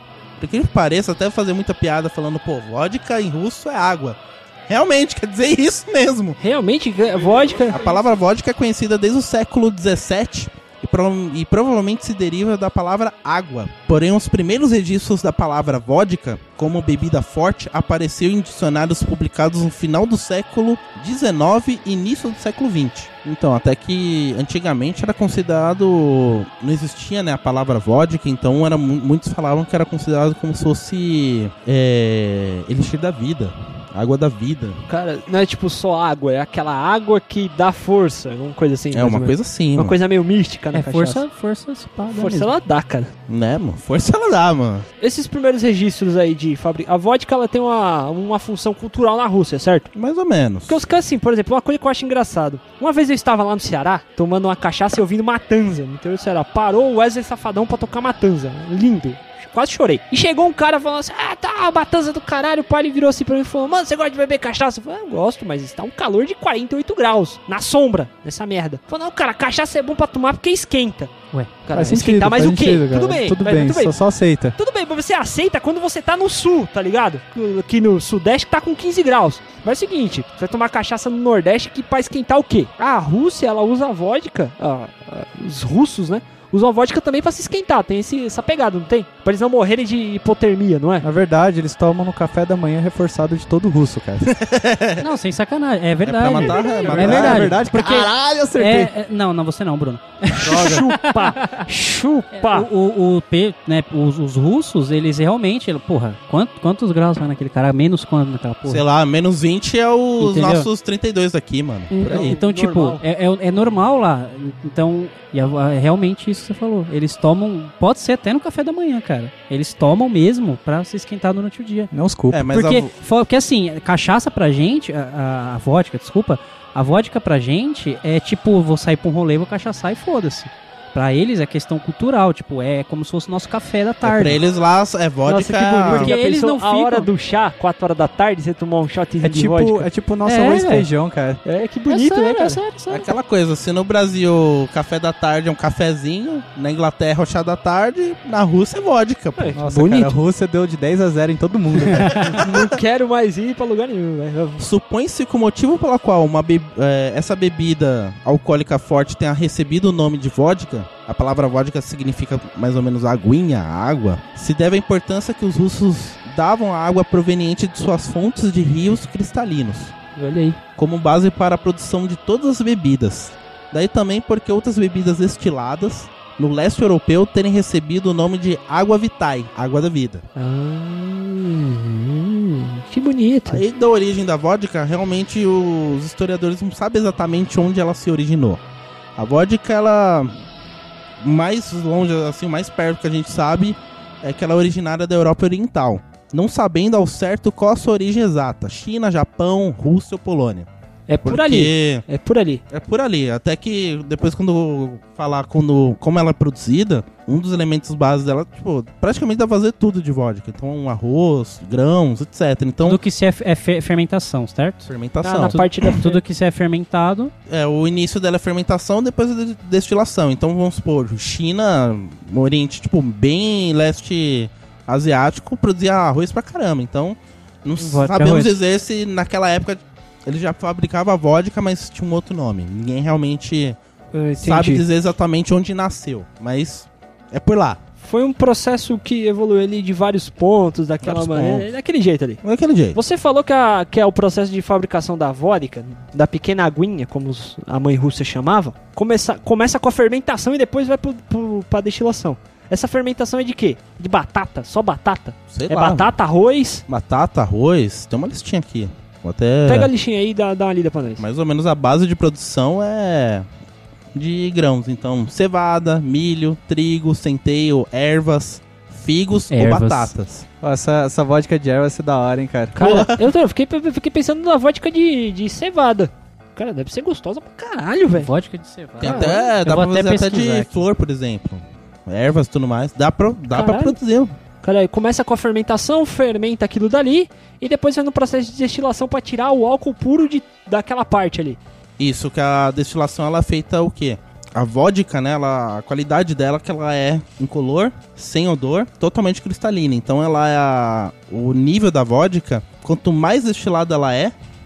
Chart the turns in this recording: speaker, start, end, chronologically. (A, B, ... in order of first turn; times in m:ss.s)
0:00.4-0:06.4 A
0:06.4-0:07.8 B
0:07.7-0:34.8 A
0:34.9-0:41.2 B
0:38.9-0:40.0 A
0:40.7-0:42.5 C
0:42.1-0:43.1 B
0:43.3-0:44.9 A
0:45.0-0:49.9 B
0:50.0-0:50.8 A
0:50.7-1:11.1 B
1:11.6-1:14.0 B
1:11.7-1:14.6 D
1:14.6-1:31.1 B
1:31.0-1:34.3 D
1:34.3-1:35.0 A
1:35.0-1:41.6 C
1:36.0-1:37.6 A
1:36.9-1:38.9 D
1:40.4-1:42.7 B
1:42.3-1:48.8 C
1:48.7-1:52.4 A
1:50.2-1:50.7 C
1:51.9-2:01.9 C
1:52.0-1:53.0 B
2:01.9-2:02.4 D
2:02.3-2:02.9 A
2:02.5-2:14.4 C
2:14.0-2:16.1 A
2:15.2-2:19.9 B
2:15.9-2:17.1 C
2:19.2-2:21.4 D
2:20.2-2:20.9 C
2:21.4-2:22.6 B
2:21.9-2:23.1 C
2:22.9-2:29.6 A
2:29.4-2:30.1 B
2:29.6-2:32.6 D
2:31.9-2:32.4 C
2:32.2-2:34.6 B
2:34.6-2:50.0 A
2:50.2-2:50.6 B
2:50.8-3:00.2 A
3:00.4-3:03.6 B
3:03.5-3:08.6 A
3:09.2-3:10.3 A
3:11.2-3:20.7 A
3:21.1-3:22.6 B
3:21.2-3:22.0 A
3:22.7-3:33.0 A
3:32.8-3:37.3 C
3:34.9-3:36.0 A
3:35.2-3:36.2 B
3:37.5-3:53.8 A
3:47.8-3:48.6 C
3:54.1-3:54.8 B
3:54.4-3:57.8 A
3:58.0-4:02.4 B
4:01.0-4:01.7 A
4:02.4-4:03.0 A
4:02.9-4:16.8 B
4:15.5-4:16.1 A
4:16.9-4:19.9 A
4:19.7-4:21.2 B
4:21.2-4:23.5 A
4:24.1-4:30.5 A
4:29.5-4:30.1 C
4:30.6-4:32.8 D
4:32.8-4:38.3 B
4:32.8-4:33.3 A
4:38.2-4:40.7 C
4:39.0-4:39.5 B
4:39.0-4:44.3 A
4:43.5-4:44.0 B
4:44.6-4:51.6 B
4:52.0-5:04.3 A